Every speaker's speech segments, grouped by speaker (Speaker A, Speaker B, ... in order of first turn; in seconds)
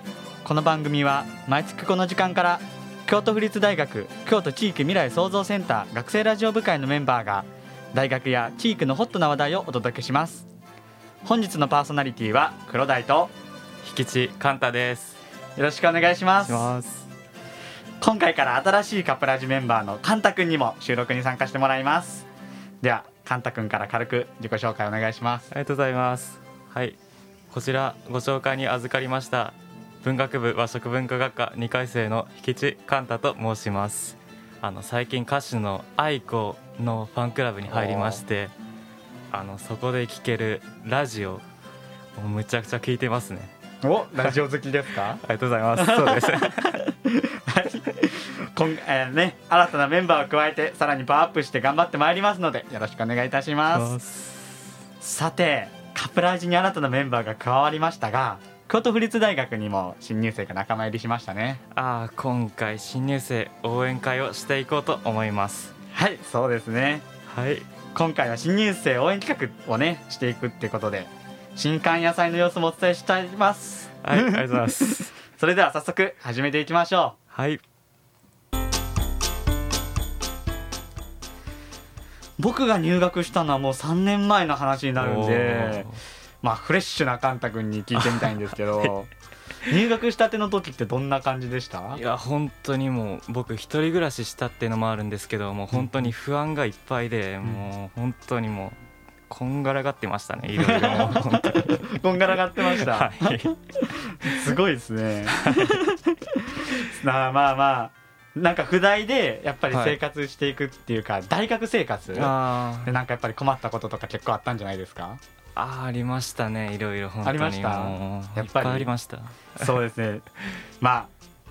Speaker A: 0.4-10.4, 11.2-13.3, 15.6-16.7, 18.0-22.3, 22.8-25.5, 37.7-38.2, 43.8-45.2, 45.8-53.9, 55.0-61.6, 65.9-67.0, 67.9-77.2, 82.4-85.9, 86.4-89.1, 89.7-92.0, 100.5-115.2, 117.2-118.9, 119.6-120.2, 120.8-121.1
Speaker B: 13.8-15.2, 16.4-17.1, 25.5-27.0, 27.5-38.5, 39.3-41.4, 42.2-43.5, 45.2-46.8, 53.7-54.6, 61.7-65.7, 67.3-67.7, 74.0-75.1, 77.3-77.6, 85.0-86.0, 88.0-88.9, 91.9-98.8, 99.3-101.8, 102.6-103.5, 104.2-104.6, 105.4-105.8, 109.7-110.0, 112.1-113.0, 115.5-119.7